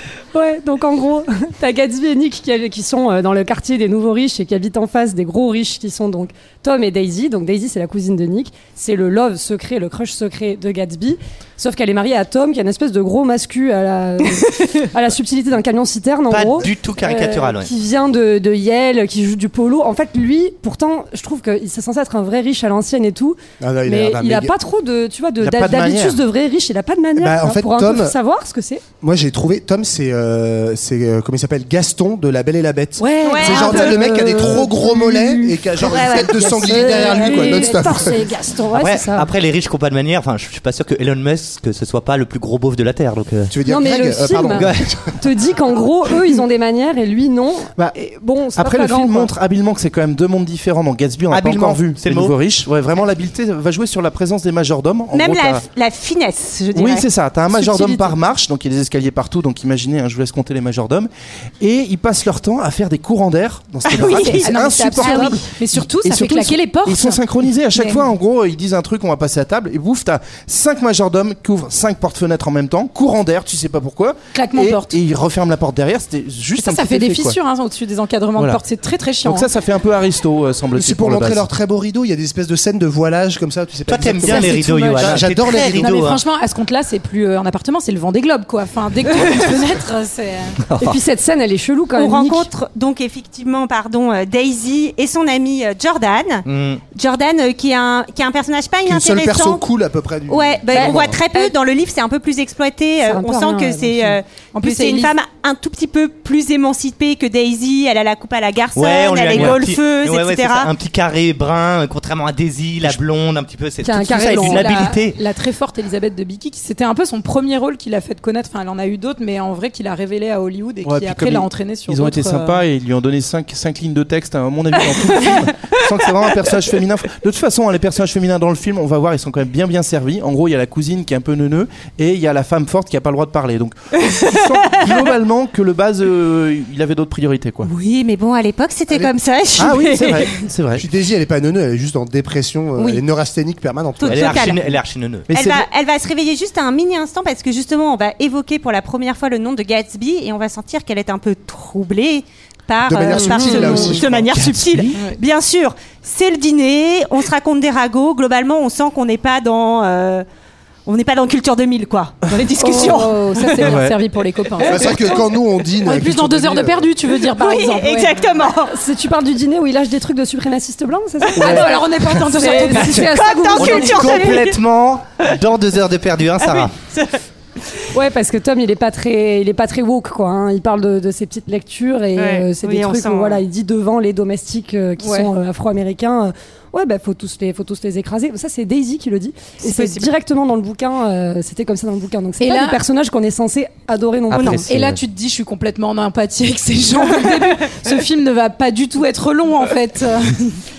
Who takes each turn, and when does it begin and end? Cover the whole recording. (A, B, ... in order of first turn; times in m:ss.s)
0:00.3-0:28.8 A
0:16.3-0:17.7 B
0:23.6-0:24.5 C
0:25.4-0:26.2 D
0:27.2-0:28.1 C
0:29.0-0:38.2 C
0:33.0-0:34.9 E
0:33.2-0:34.0 F
0:33.6-0:39.3 A
0:36.2-0:37.2 F
0:38.7-0:43.6 B
0:43.5-0:45.2 C
0:43.6-0:49.3 A
0:44.5-0:44.8 B
0:48.5-0:55.6 D
0:51.3-0:52.3 B
0:55.1-0:57.1 F
0:56.7-1:17.4 D
0:57.5-0:58.1 E
1:03.9-1:04.5 F
1:04.0-1:07.2 E
1:07.7-1:08.0 E
1:14.3-1:15.0 E
1:16.6-1:19.5 E
1:19.2-1:21.4 D
1:20.7-1:25.9 C
1:23.9-1:26.2 B
1:24.2-1:30.6 E
1:30.7-1:31.0 B
1:30.8-1:32.5 A
1:32.0-1:39.6 F
1:36.5-1:36.8 B
1:38.8-1:41.2 C
1:40.3-1:50.7 F
1:43.0-1:44.2 A
1:44.5-1:45.1 E
1:48.8-1:55.2 B
1:53.8-1:54.9 A
1:54.2-2:02.6 E
2:00.8-2:17.7 D
2:17.6-2:20.3 F
2:19.6-2:20.8 D
2:20.8-2:24.6 C
2:24.0-2:24.6 F
2:24.0-2:25.3 B
2:25.3-2:25.6 D
2:25.3-2:40.2 F
2:32.9-2:34.4 C
2:33.1-2:34.0 A
2:34.3-2:34.9 D
2:40.8-2:43.7 F
2:42.6-2:45.2 E
2:43.5-2:44.0 D
2:44.6-2:46.9 C
2:45.8-2:48.1 E
2:47.3-2:48.7 F
2:48.7-2:54.3 A
2:51.4-2:53.1 E
2:52.8-2:54.6 F
2:52.8-2:56.7 B
2:56.4-2:57.2 F
2:57.9-3:14.6 A
3:02.2-3:03.4 F
3:05.0-3:05.3 E
3:09.6-3:10.1 F
3:12.4-3:12.8 E
3:14.3-3:14.8 B
3:14.3-3:14.6 F
3:14.4-3:20.6 E